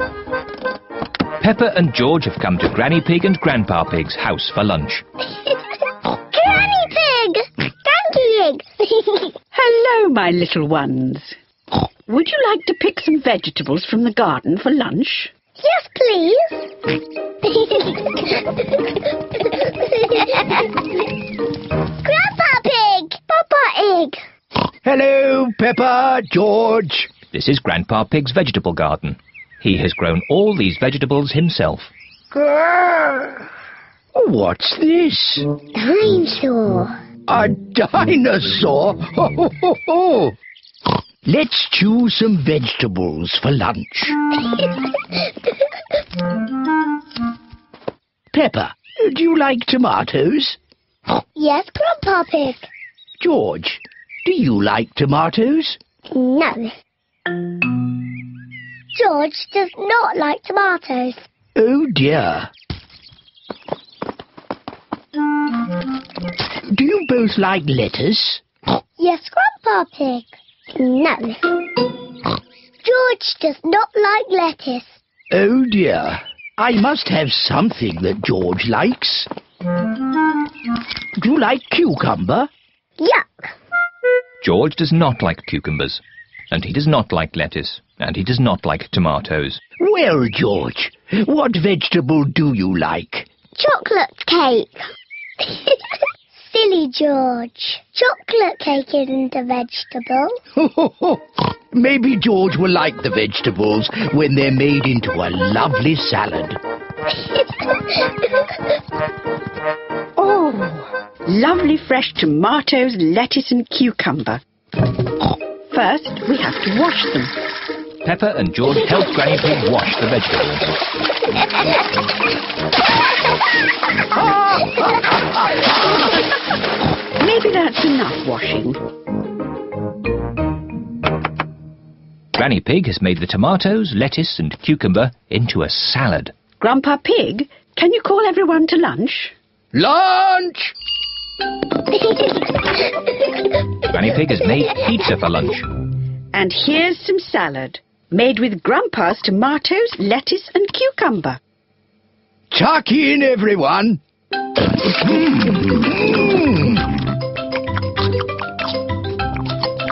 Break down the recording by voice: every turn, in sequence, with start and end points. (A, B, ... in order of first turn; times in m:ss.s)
0:01.4-0:05.0 A
0:06.1-0:09.3 B
0:09.5-0:11.4 C
0:12.1-0:15.3 C
0:15.6-0:16.7 B
0:17.4-0:18.6 B
0:19.5-0:20.8 B
0:22.0-0:24.2 B
0:24.8-0:27.1 D
0:27.3-0:31.9 A
0:34.1-0:35.5 D
0:35.7-0:37.0 B
0:37.3-0:40.4 D
0:41.2-0:44.2 D
0:48.3-0:50.6 D
0:51.4-0:52.7 B
0:53.2-0:55.8 D
0:56.1-0:56.7 B
0:58.9-1:01.3 B
1:01.5-1:02.5 D
1:06.7-1:08.4 D
1:09.0-1:11.5 B
1:12.8-1:15.0 B
1:15.3-1:19.3 D
1:21.2-1:22.5 D
1:23.0-1:23.5 B
1:24.4-1:29.6 A
1:29.8-1:33.3 D
1:33.6-1:34.8 B
1:35.4-1:35.8 B
1:36.3-1:40.4 B
1:40.5-1:46.6 D
1:50.2-1:54.4 C
1:55.7-1:57.3 C
1:58.0-2:00.8 A
2:04.1-2:05.6 D
2:07.2-2:08.8 C
2:12.3-2:16.3 A
2:16.6-2:19.3 C
2:19.7-2:20.7 D
2:23.8-2:25.7 A
2:26.3-2:31.4 C
2:32.5-2:34.0 D
2:34.6-2:36.9 D